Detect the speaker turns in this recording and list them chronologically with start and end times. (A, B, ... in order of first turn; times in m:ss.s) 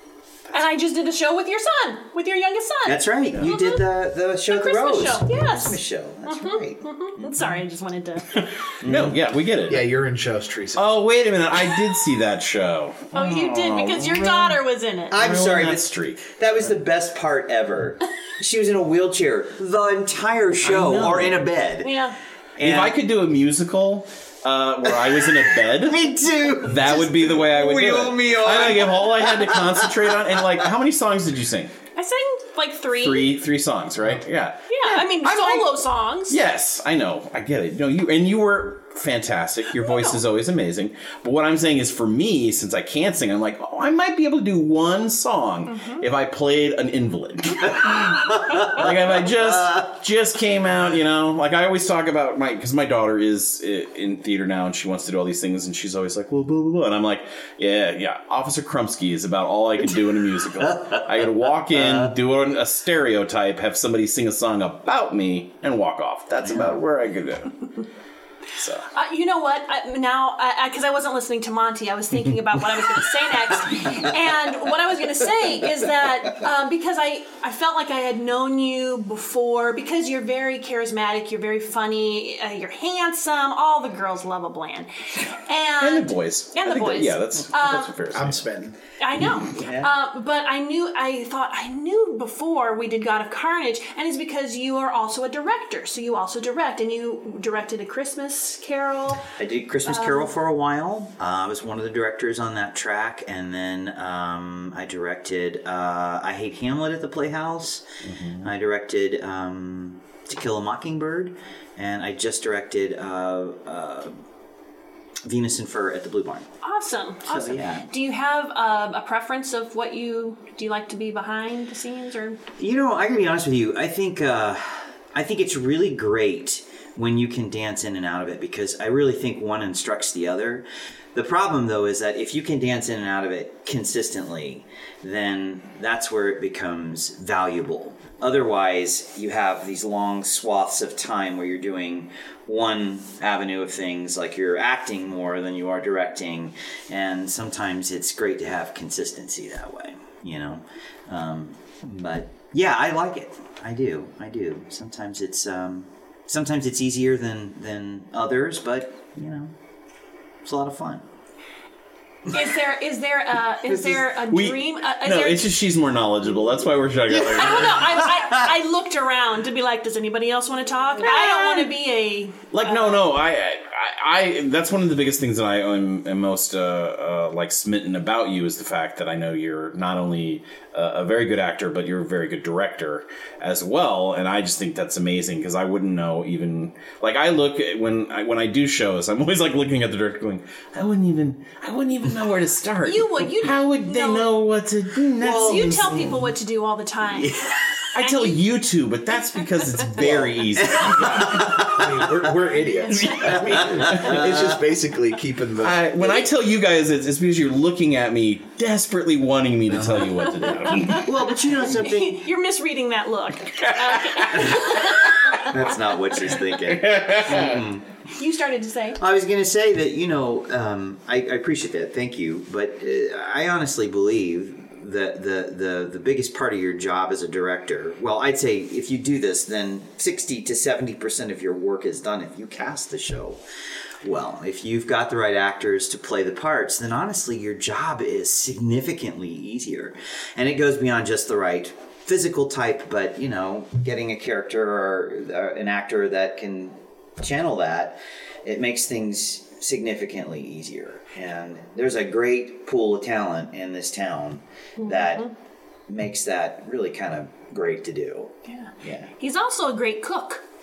0:00.5-0:03.8 A
0:02.8-0:07.5 B
0:04.5-0:08.5 A
0:08.3-0:10.0 C
0:08.8-0:09.2 B
0:09.7-0:10.8 D
0:10.7-0:14.6 C
0:13.1-0:15.2 A
0:15.1-0:21.9 B
0:15.1-0:16.7 C
0:20.6-0:21.4 C
0:21.8-0:22.2 A
0:22.6-0:23.0 B
0:22.6-0:26.1 C
0:24.8-0:30.4 B
0:26.6-0:31.7 C
0:32.0-0:33.4 A
0:32.9-0:34.6 C
0:34.7-0:36.4 A
0:35.3-0:35.6 C
0:36.3-1:07.7 C
0:39.8-0:40.2 A
0:45.7-0:46.0 A
0:47.7-0:49.8 B
1:00.5-1:02.1 B
1:06.4-1:06.8 B
1:08.6-1:08.9 C
1:08.9-1:27.9 A
1:25.8-1:28.4 C
1:28.1-1:28.8 D
1:29.0-1:39.3 A
1:29.4-1:29.9 B
1:39.4-1:47.8 B
1:39.8-1:40.3 A
1:48.0-1:48.5 C
1:48.4-1:54.2 B
1:55.2-1:56.5 B
1:56.6-2:02.4 A
1:57.2-1:57.9 B
2:02.6-2:39.5 B
2:40.4-2:41.0 B
2:42.3-2:45.6 A
2:43.7-2:44.0 B
2:44.3-2:48.0 C
2:47.2-2:53.0 A
2:52.5-3:16.0 C
3:12.8-3:14.3 A
3:15.2-3:16.2 B
3:15.2-3:17.3 A
3:17.2-3:17.5 B
3:17.9-3:21.6 C
3:18.0-3:18.4 A
3:20.0-3:22.3 B
3:21.0-3:25.9 D
3:22.9-3:24.3 C
3:23.2-3:24.6 B
3:25.6-3:31.1 C
3:29.7-3:30.2 D
3:30.6-3:36.0 A
3:30.9-3:32.3 B
3:33.5-3:35.2 C
3:35.3-3:37.9 B
3:36.4-3:37.6 C
3:37.3-3:39.0 A
3:39.0-3:53.4 B
3:54.0-4:15.3 B
4:14.8-4:15.2 A
4:15.9-4:19.1 B
4:18.5-4:20.4 A